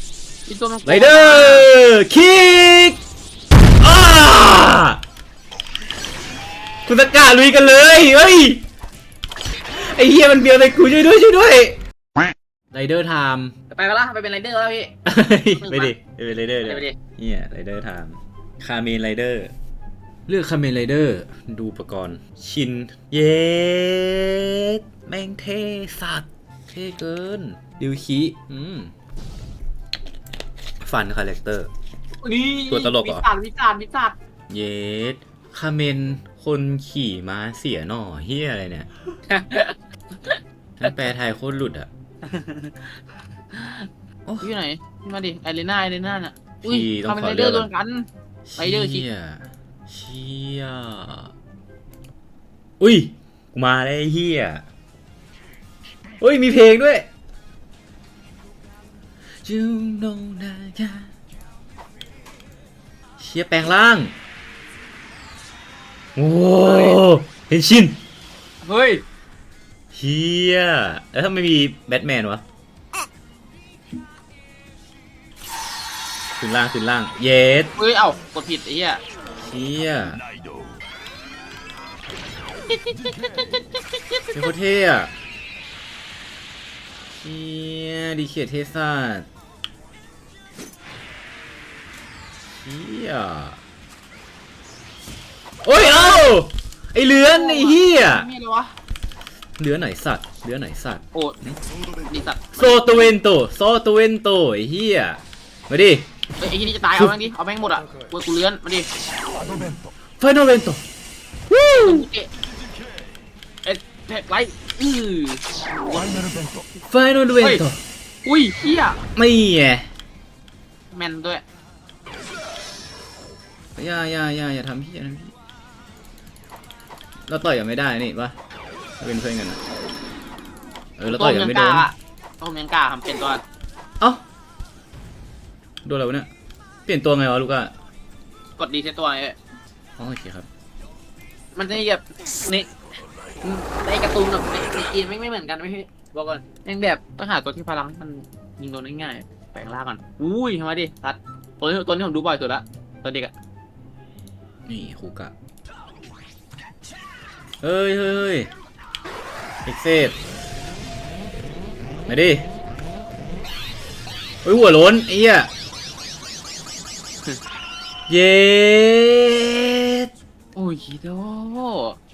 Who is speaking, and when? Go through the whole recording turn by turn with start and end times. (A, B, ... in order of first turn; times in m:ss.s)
0:00.5-0:01.7 A
0:00.9-0:03.0 B
0:03.8-0:05.0 B
0:06.9-0:08.6 B
0:09.7-0:11.8 B
0:12.7-0:13.5 B
0:13.7-0:14.9 A
0:15.1-0:19.5 B
0:15.6-0:15.9 A
0:16.6-0:17.0 A
0:20.3-0:28.9 B
0:30.8-0:31.7 B
0:32.2-0:34.2 A
0:32.7-0:33.3 B
0:34.5-0:38.9 B
0:39.3-0:39.8 A
0:40.8-0:41.9 B
0:42.2-0:42.7 A
0:43.5-0:43.9 A
0:44.3-0:44.5 B
0:44.4-0:49.1 A
0:46.6-0:47.7 B
0:48.5-0:51.3 B
0:52.8-0:54.6 B
0:56.2-0:57.1 B
0:59.4-1:01.1 B
1:03.2-1:04.1 B
1:06.2-1:08.0 B
1:06.6-1:07.0 A
1:08.6-1:09.0 A
1:09.9-1:12.4 B
1:16.4-1:17.7 B
1:17.8-1:19.0 A
1:19.4-1:20.2 B
1:24.3-1:25.1 B
1:27.2-1:29.3 B
1:32.5-1:33.6 B
1:35.6-1:38.3 B
1:37.2-1:38.8 A
1:39.6-1:41.6 B
1:42.1-1:42.8 A
1:42.6-1:46.1 B
1:46.4-1:48.9 A
1:50.2-1:50.8 B
1:51.5-1:52.0 B
1:51.8-1:52.3 A
1:53.6-1:56.4 A
1:56.9-1:57.8 B
1:58.2-1:59.0 A
1:59.2-1:59.9 B
2:00.9-2:01.4 A
2:03.8-2:05.3 B
2:07.3-2:08.4 B
2:09.0-2:09.6 B
2:11.0-2:11.9 B
2:11.1-2:13.4 A
2:15.8-2:16.3 B
2:16.9-2:17.7 B
2:18.6-2:19.4 A
2:20.0-2:20.5 B
2:21.6-2:22.7 A
2:23.4-2:33.3 A
2:34.7-2:35.3 B
2:37.6-2:38.5 B
2:39.7-2:40.2 B
2:42.1-2:42.5 B
2:44.4-2:45.5 B
2:48.1-2:50.1 B
2:50.6-2:52.0 A